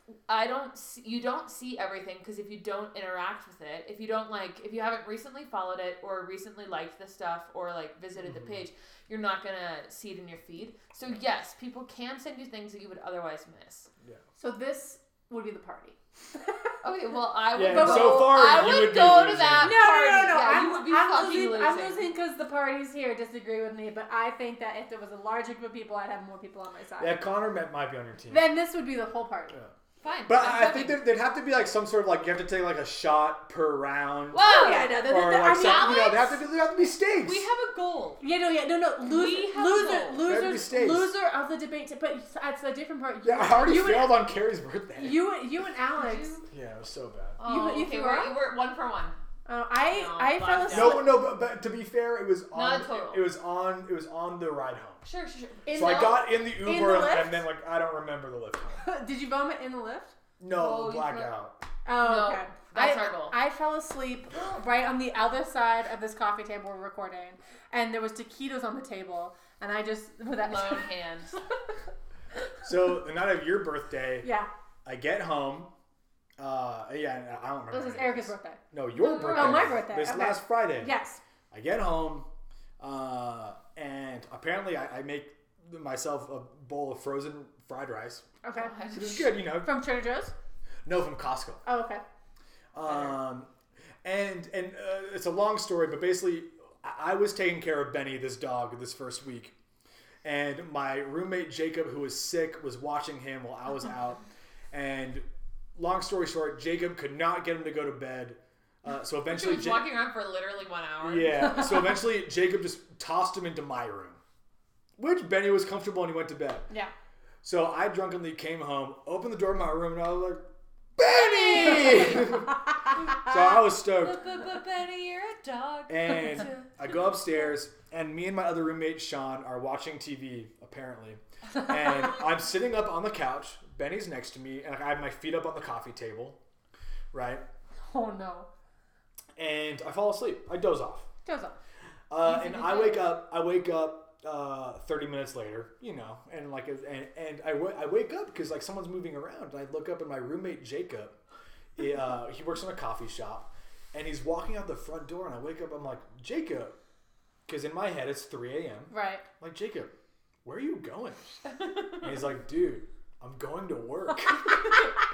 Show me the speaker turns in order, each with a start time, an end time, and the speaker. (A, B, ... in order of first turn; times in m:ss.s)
0:00.3-0:13.9 A
0:14.4-0:16.8 B
0:16.8-0:22.1 A
0:17.5-0:19.8 C
0:17.6-0:18.4 B
0:19.6-0:27.2 B
0:27.0-0:28.5 C
0:28.3-0:29.5 B
0:30.0-0:31.0 A
0:30.3-0:37.5 C
0:34.3-0:36.4 A
0:34.4-0:36.1 B
0:37.2-0:38.2 A
0:38.2-0:44.2 B
0:39.0-0:40.2 A
0:40.2-0:41.1 C
0:43.2-0:45.3 C
0:45.0-0:46.4 B
0:45.9-0:46.4 A
0:46.5-0:47.4 C
0:47.4-0:49.2 A
0:47.4-0:48.3 B
0:49.4-0:51.2 B
0:49.9-0:51.1 A
0:50.7-0:55.0 C
0:52.5-0:53.3 A
0:55.0-0:56.2 A
0:55.6-0:57.4 B
0:55.7-0:58.8 C
0:58.8-1:00.1 B
1:00.4-1:01.6 C
1:00.5-1:01.3 A
1:01.8-1:10.9 B
1:02.0-1:03.4 A
1:10.4-1:11.4 A
1:12.6-1:14.3 C
1:14.2-1:14.5 B
1:14.8-1:15.7 C
1:16.4-1:20.9 C
1:17.7-1:21.2 B
1:19.0-1:19.8 A
1:21.5-1:22.3 C
1:22.8-1:28.2 C
1:28.4-1:30.3 B
1:28.5-1:29.2 A
1:28.9-1:29.8 C
1:30.8-1:31.6 C
1:31.6-1:32.0 B
1:32.7-1:33.5 C
1:32.9-1:33.2 A
1:34.0-1:39.5 C
1:40.2-1:49.8 C
1:49.2-1:51.8 A
1:51.0-1:54.2 C
1:55.0-1:56.7 C
1:57.4-2:00.4 C
2:01.0-2:04.3 C
2:01.0-2:02.4 A
2:03.2-2:06.9 A
2:05.9-2:16.4 C
2:17.1-2:17.4 C
2:17.8-2:18.5 B
2:19.4-2:21.1 C
2:21.2-2:21.6 B
2:22.1-2:31.1 C
2:22.2-2:23.1 A
2:31.8-2:36.8 C
2:37.5-2:39.9 C
2:38.9-2:39.2 B
2:40.4-2:41.4 C
2:41.5-2:42.1 A
2:42.0-2:44.9 C
2:44.6-2:44.9 A